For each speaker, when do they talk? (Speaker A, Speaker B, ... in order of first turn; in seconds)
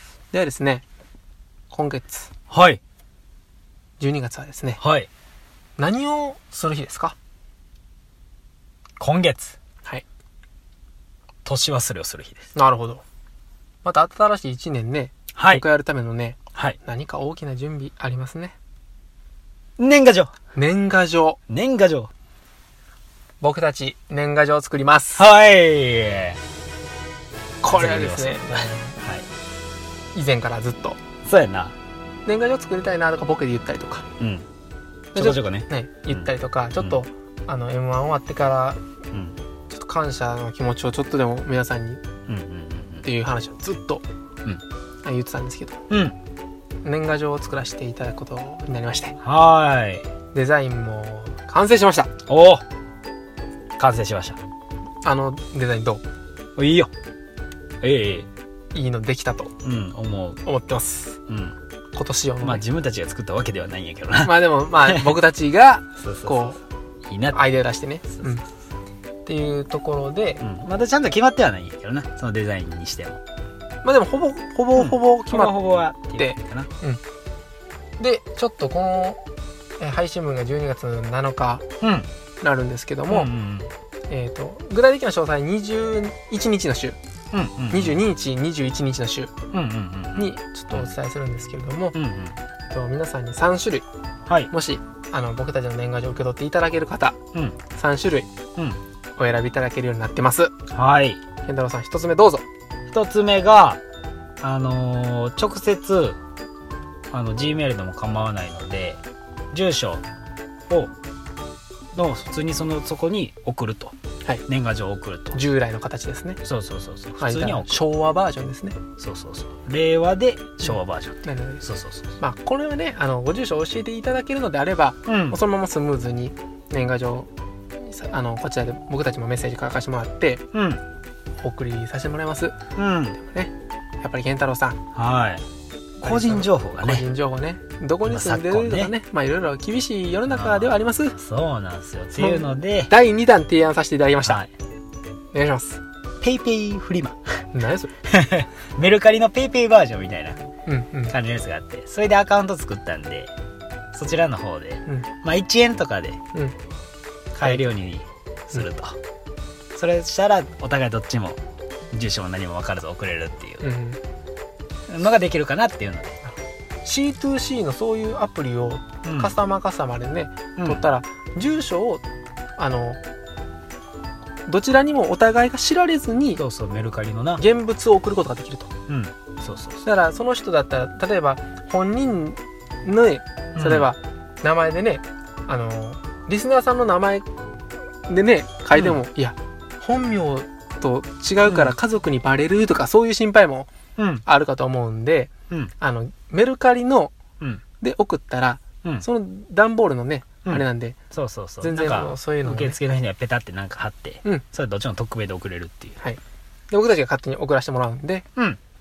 Speaker A: 0.3-0.8, 1.7-2.3, 4.0-4.8, 5.8-7.1, 12.5-13.0, 13.8-18.5, 20.6-21.4, 23.4-25.2, 27.6-28.9, 30.1-31.0, 32.2-34.0, 35.1-38.8, 39.7-42.0, 43.0-44.0, 45.0-45.8, 46.8-49.2, 50.3-52.1, 55.0-56.0, 58.7-59.5, 60.4-61.2, 61.9-62.6, 64.2-66.6, 67.3-68.5, 69.2-70.4, 73.8-77.0, 78.0-79.2, 79.8-81.6, 82.4-83.3, 84.1-87.0, 87.7-89.3, 90.2-92.0, 92.7-93.8, 94.5-97.2, 97.7-98.3, 99.2-100.5, 101.4-102.4, 115.3-116.4, 117.2-118.8, 121.2-121.6, 122.2-130.4, 131.4-132.6, 133.2-134.8, 136.0-141.2, 142.2-144.4, 145.3-145.8, 147.5-147.9, 150.7-151.1, 163.6-164.0, 166.8-172.0, 172.6-173.0, 174.5-176.4, 177.4-178.7, 179.8-187.2, 188.1-193.7, 194.2-197.1, 197.8-201.0, 201.6-202.8, 206.7-208.2
Speaker B: 2.5-2.8, 4.8-5.1, 9.0-9.5, 11.4-12.4, 15.3-15.6, 19.8-20.3, 21.5-22.1, 25.1-26.4, 27.7-29.2, 31.2-31.7, 34.2-34.5, 35.1-37.0, 42.3-43.0, 45.9-46.1, 49.2-50.0, 52.3-52.6, 53.8-54.4, 56.6-56.9, 57.8-58.3, 59.6-60.4, 61.3-61.5, 62.4-64.3, 66.0-66.5, 67.1-67.3, 70.4-73.2, 74.7-76.7, 81.8-82.1, 83.1-83.7, 87.3-88.0, 89.5-90.9, 91.9-92.3, 100.7-101.2, 102.9-103.8, 104.4-106.2, 107.1-109.0, 109.5-110.0, 111.9-113.9, 114.5-115.3, 116.4-117.8, 119.0-122.1, 125.0-125.4, 130.5-130.8, 132.8-133.2, 134.9-135.4, 136.0-137.0, 138.1-138.9, 140.3-142.9, 144.2-144.5, 146.2-147.2, 148.1-150.4, 151.1-153.3, 153.9-156.2, 157.3-159.0, 159.7-161.4, 161.9-163.6, 164.9-166.1, 169.0-169.3, 170.6-170.8, 176.3-177.4, 178.9-179.8, 183.6-183.9, 188.7-189.0, 191.4-191.7, 194.0-194.2, 200.4-205.9